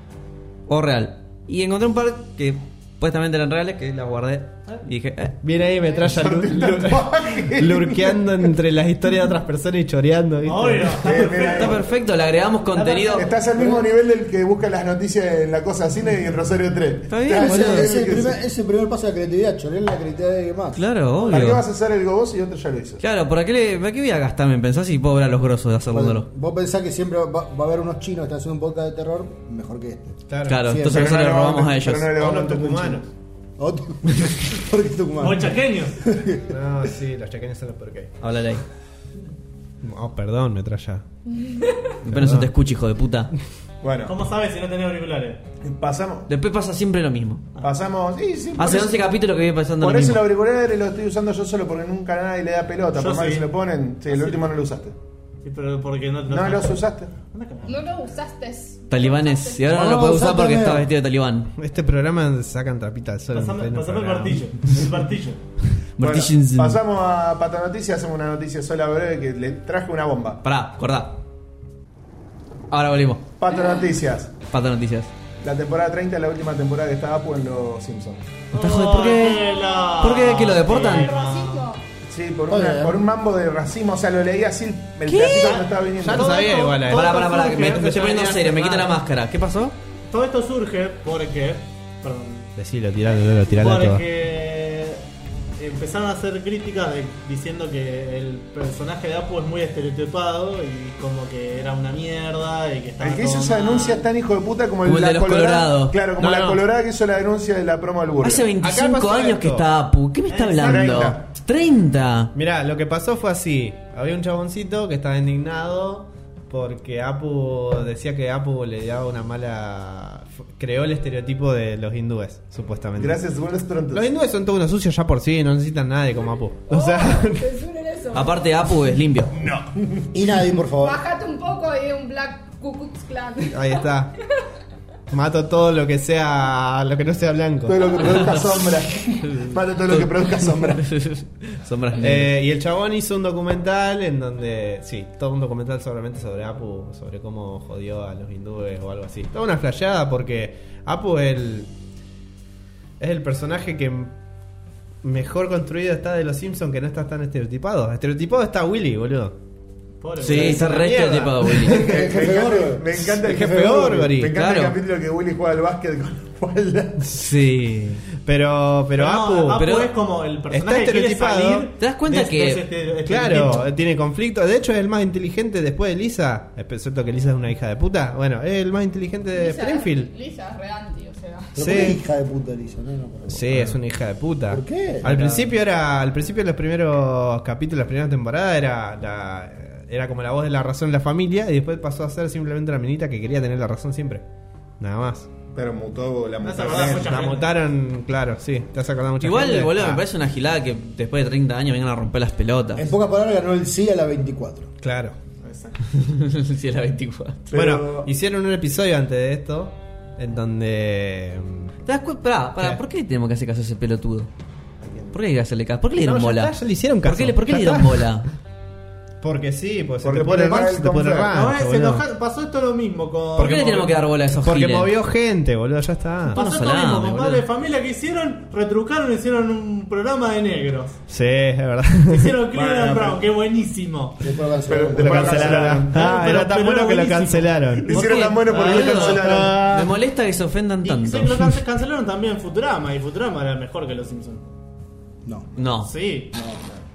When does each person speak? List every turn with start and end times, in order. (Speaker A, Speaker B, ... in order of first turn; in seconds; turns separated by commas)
Speaker A: 0.7-5.4, Speaker B: 5.4-11.1, Speaker C: 6.0-8.5, Speaker D: 10.4-11.9, Speaker C: 11.0-11.9, Speaker A: 11.3-13.3, Speaker D: 12.7-13.4, Speaker C: 13.2-18.4, Speaker E: 13.5-13.9, Speaker A: 17.1-17.9, Speaker E: 17.3-20.8, Speaker A: 20.8-21.6, Speaker C: 21.2-23.0, Speaker A: 23.0-26.3, Speaker E: 25.9-31.1, Speaker B: 30.3-30.8, Speaker A: 30.5-32.1, Speaker C: 30.9-33.1, Speaker B: 32.1-33.0, Speaker E: 33.6-36.5, Speaker D: 35.2-36.0, Speaker B: 36.5-38.1, Speaker A: 38.2-38.6, Speaker B: 39.8-41.0, Speaker F: 41.5-41.9, Speaker A: 42.0-43.3, Speaker B: 42.1-42.5, Speaker C: 43.8-44.1, Speaker D: 44.0-45.4, Speaker C: 45.6-46.3, Speaker A: 46.3-47.5, Speaker C: 47.6-49.1, Speaker A: 48.6-50.3, Speaker C: 49.8-55.0, Speaker D: 52.9-53.5, Speaker D: 54.1-54.4, Speaker D: 55.4-57.9, Speaker C: 56.3-57.1, Speaker F: 57.7-59.7, Speaker A: 58.9-61.5, Speaker E: 59.7-60.9, Speaker B: 61.5-64.5, Speaker D: 63.3-65.4, Speaker A: 66.0-66.8, Speaker C: 66.0-70.4, Speaker A: 70.4-71.2, Speaker A: 72.7-73.3, Speaker C: 73.4-74.3, Speaker A: 74.5-75.1, Speaker C: 75.4-78.3, Speaker D: 78.5-81.7, Speaker A: 78.5-79.5, Speaker F: 79.4-81.8, Speaker A: 80.0-81.1, Speaker C: 82.1-86.4, Speaker E: 82.5-83.0, Speaker A: 85.0-85.7, Speaker B: 86.0-88.5, Speaker D: 86.1-88.9, Speaker A: 86.8-89.8, Speaker D: 90.1-92.5, Speaker B: 92.6-94.0, Speaker D: 93.5-95.0, Speaker D: 95.6-104.1, Speaker C: 103.0-108.5, Speaker A: 104.8-106.0, Speaker B: 106.2-106.6, Speaker A: 108.2-112.3, Speaker B: 108.6-109.7, Speaker D: 110.3-111.1, Speaker C: 110.5-111.2, Speaker B: 112.3-123.2, Speaker C: 123.0-124.1, Speaker B: 123.9-127.5, Speaker F: 126.7-128.5, Speaker A: 128.1-129.3, Speaker C: 129.3-130.1, Speaker E: 130.1-131.0, Speaker F: 130.8-133.9, Speaker B: 133.5-134.1, Speaker B: 135.1-138.3, Speaker C: 137.7-140.9, Speaker A: 138.1-138.5, Speaker A: 139.2-142.3, Speaker B: 142.0-151.7, Speaker B: 153.0-154.1, Speaker B: 155.0-159.3, Speaker D: 160.0-161.0, Speaker A: 160.2-161.8, Speaker B: 160.3-161.8, Speaker C: 161.7-167.1, Speaker E: 161.7-163.7, Speaker B: 163.2-164.4, Speaker A: 164.3-164.8, Speaker A: 167.1-168.0, Speaker B: 168.2-169.7, Speaker D: 169.0-173.7, Speaker A: 169.6-169.9, Speaker B: 170.5-171.7, Speaker A: 171.8-172.6, Speaker B: 173.1-180.1, Speaker F: 179.3-181.7, Speaker E: 181.6-183.8, Speaker B: 181.6-182.0, Speaker B: 183.3-194.2, Speaker E: 184.5-185.1, Speaker B: 194.8-195.3, Speaker C: 195.5-197.3, Speaker D: 196.4-197.5, Speaker B: 196.7-200.0, Speaker A: 199.2-202.9, Speaker E: 202.8-204.7, Speaker B: 204.8-205.2, Speaker D: 205.4-205.8, Speaker A: 205.9-207.4, Speaker C: 207.5-208.1, Speaker B: 207.5-211.7, Speaker A: 211.9-214.3, Speaker C: 214.8-215.2, Speaker A: 215.1-218.3, Speaker B: 216.0-218.2, Speaker B: 219.2-222.0, Speaker C: 220.0-221.4, Speaker D: 221.3-224.0, Speaker B: 223.4-223.8, Speaker A: 223.4-224.9, Speaker B: 224.3-226.4, Speaker D: 226.3-231.0, Speaker A: 226.3-227.4, Speaker B: 231.1-232.4, Speaker D: 232.1-234.2, Speaker C: 232.5-233.2, Speaker E: 234.2-235.8, Speaker C: 234.7-236.0, Speaker B: 234.9-238.0, Speaker D: 235.9-239.3, Speaker C: 237.8-239.7, Speaker A: 237.9-241.3, Speaker B: 239.1-239.9, Speaker D: 240.8-244.5, Speaker E: 245.2-245.5, Speaker A: 245.6-245.9, Speaker D: 245.8-246.3, Speaker E: 246.3-246.7